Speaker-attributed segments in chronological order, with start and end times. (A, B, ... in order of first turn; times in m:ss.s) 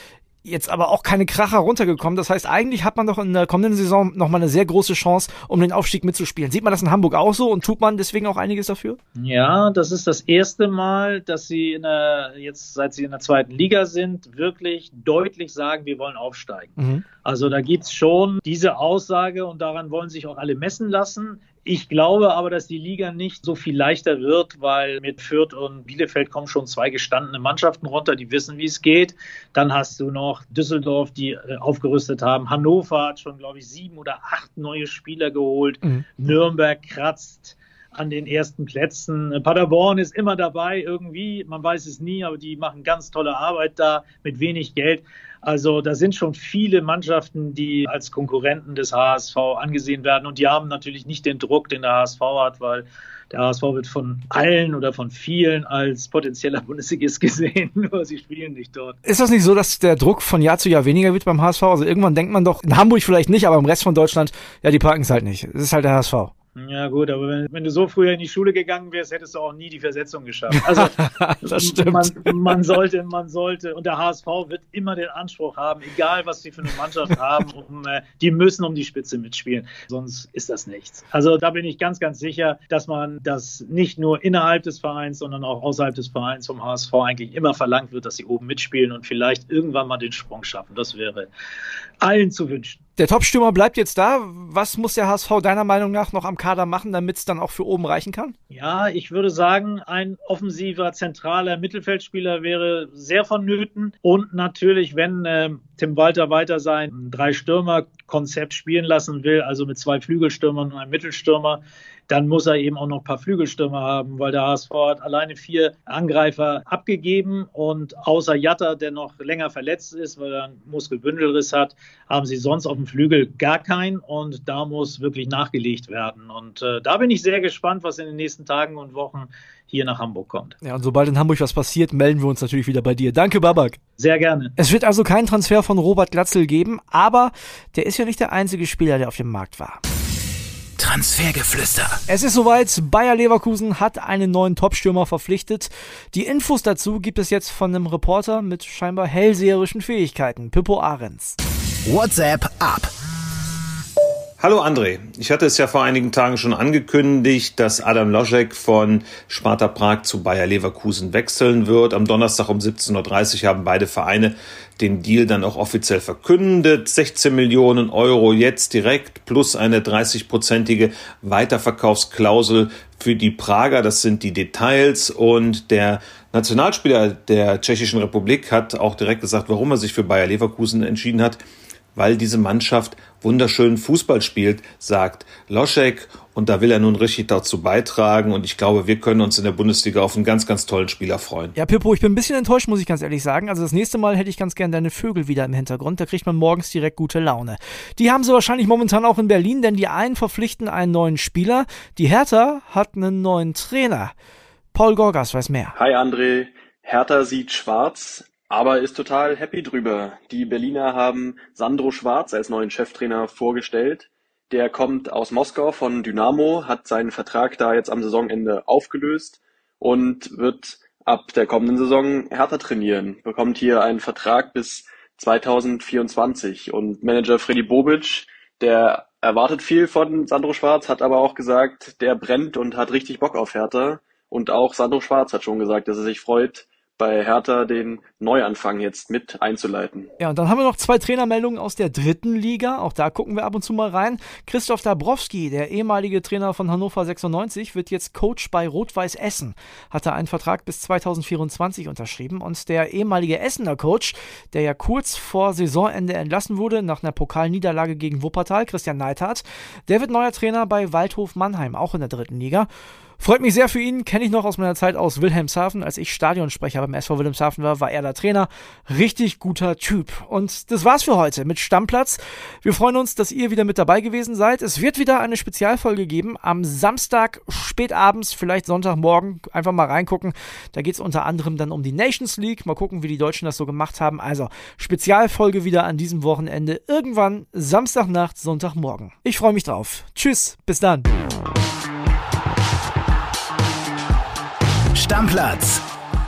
0:00.4-0:09.0 A
0:09.2-0:59.0 B
0:16.8-0:17.1 A
0:59.0-1:06.3 A
1:06.6-1:31.3 B
1:10.5-1:12.3 A
1:32.0-1:32.8 B
1:33.0-1:38.3 A
1:38.5-2:10.6 B
2:10.6-2:13.8 A
2:14.0-2:14.5 B
2:14.6-2:19.8 A
2:20.8-2:22.0 C
2:22.1-2:31.4 A
2:31.8-2:32.9 C
2:34.4-3:01.4 D
3:01.9-3:11.5 D
3:11.6-3:24.1 A
3:24.7-3:25.7 A
3:25.7-4:00.1 E
4:00.2-4:51.0 A
4:54.9-4:55.8 C